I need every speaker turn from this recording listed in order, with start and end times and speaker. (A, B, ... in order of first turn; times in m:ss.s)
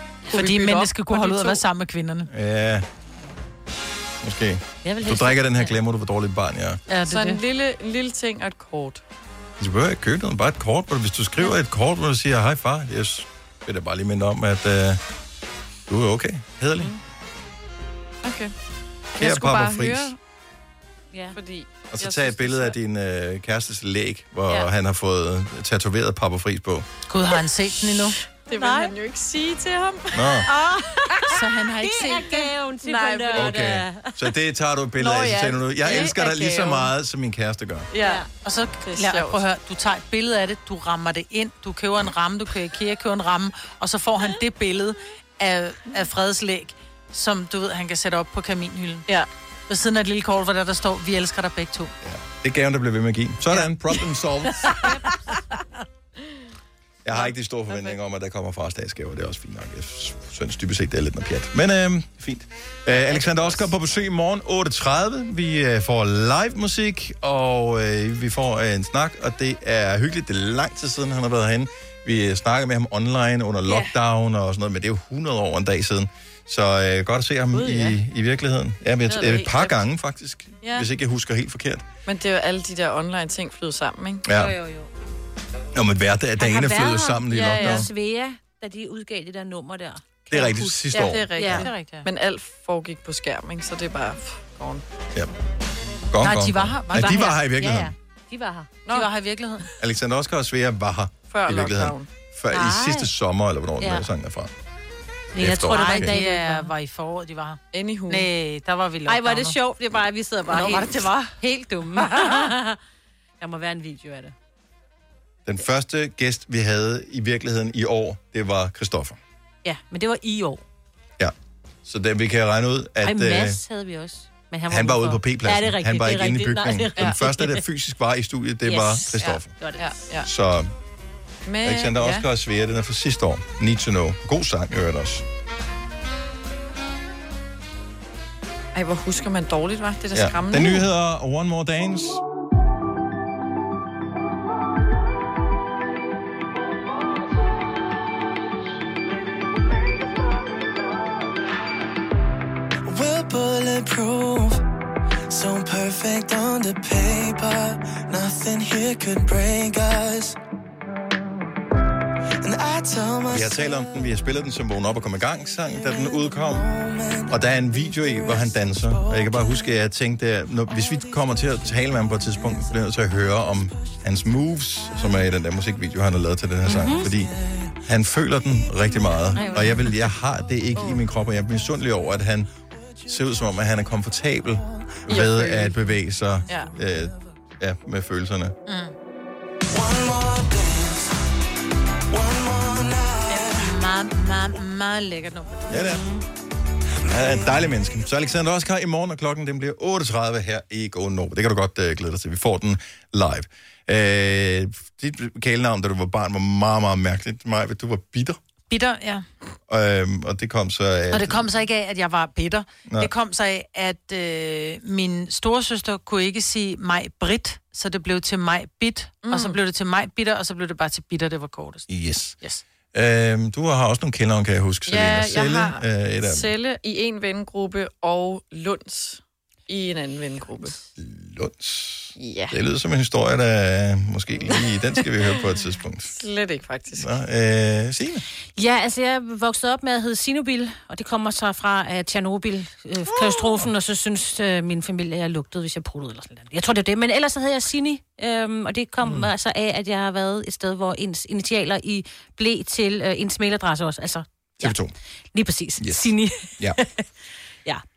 0:00.3-0:01.5 A
0:00.3-0:02.3 B
0:02.3-0:02.9 C
0:04.2-0:06.8 C
0:04.8-0:05.7 D
0:06.9-0:07.4 B
0:07.1-0:09.0 A
0:09.6-0:15.0 C
0:15.9-0:16.9 C
0:18.2-0:18.5 A
0:19.2-0:20.2 A
0:19.2-0:20.1 C
0:21.3-0:22.7 A
0:21.9-0:26.8 C
0:27.1-0:28.2 B
0:28.4-0:30.5 A
0:28.5-0:28.9 D
0:30.1-0:30.5 C
0:30.5-0:34.2 D
0:31.2-0:32.5 B
0:32.8-0:33.6 A
0:33.3-0:37.9 C
0:35.0-0:36.9 A
0:37.9-0:38.2 A
0:38.0-0:38.3 D
0:38.4-0:49.1 B
0:38.8-0:39.4 A
0:49.7-0:51.9 B
0:52.0-0:54.9 C
0:57.0-1:21.8 C
0:57.1-0:58.0 A
1:17.5-1:18.0 D
1:19.3-1:19.7 A
1:20.6-1:20.9 A
1:22.0-1:24.2 A
1:24.2-1:24.6 C
1:24.3-1:24.9 D
1:25.7-1:27.9 C
1:26.4-1:31.7 D
1:30.3-1:31.6 C
1:30.9-1:34.8 A
1:31.4-1:32.0 B
1:36.1-1:37.9 C
1:36.2-1:37.4 B
1:37.0-1:38.7 D
1:38.9-1:39.6 B
1:39.8-1:44.5 C
1:41.3-1:42.1 A
1:42.5-1:43.1 D
1:43.8-1:44.1 D
1:45.3-1:46.7 D
1:45.4-1:46.2 C
1:45.7-1:49.6 B
1:47.7-1:48.3 A
1:49.0-1:52.8 D
1:50.5-1:51.3 B
1:52.0-1:52.5 B
1:53.4-1:54.3 D
1:55.4-1:59.2 C
1:59.6-2:00.6 D
2:01.8-2:03.6 C
2:03.0-2:07.6 D
2:04.7-2:09.5 C
2:08.6-2:09.8 D
2:09.2-2:10.3 A
2:10.2-2:10.7 C
2:11.4-2:12.3 A
2:11.6-2:15.2 C
2:18.7-2:20.9 A
2:20.1-2:22.2 C
2:32.9-2:34.6 E
2:35.3-2:40.4 E
2:42.4-2:43.7 E
2:43.3-2:46.7 C
2:45.9-2:47.4 E
2:47.3-3:02.5 C
2:47.9-2:49.5 E
2:56.7-2:57.1 D
2:59.3-3:00.0 D
3:03.0-3:08.5 C
3:05.1-3:05.8 A
3:08.7-3:08.9 B
3:09.7-3:11.1 E
3:12.1-3:13.6 E
3:13.3-3:16.1 B
3:15.7-3:16.0 C
3:17.0-3:28.4 C
3:28.7-3:29.2 B
3:29.7-3:31.5 C
3:31.1-3:41.9 B
3:39.2-3:39.6 A
3:41.9-3:42.4 C
3:42.9-3:46.5 C
3:44.9-3:50.8 A
3:51.0-3:56.1 C
3:52.2-3:52.6 A
3:56.1-3:57.1 A
3:57.0-3:58.2 C
3:58.6-4:14.8 D
4:09.0-4:09.3 C
4:14.6-4:14.9 C
4:15.3-4:17.0 D
4:15.8-4:16.8 C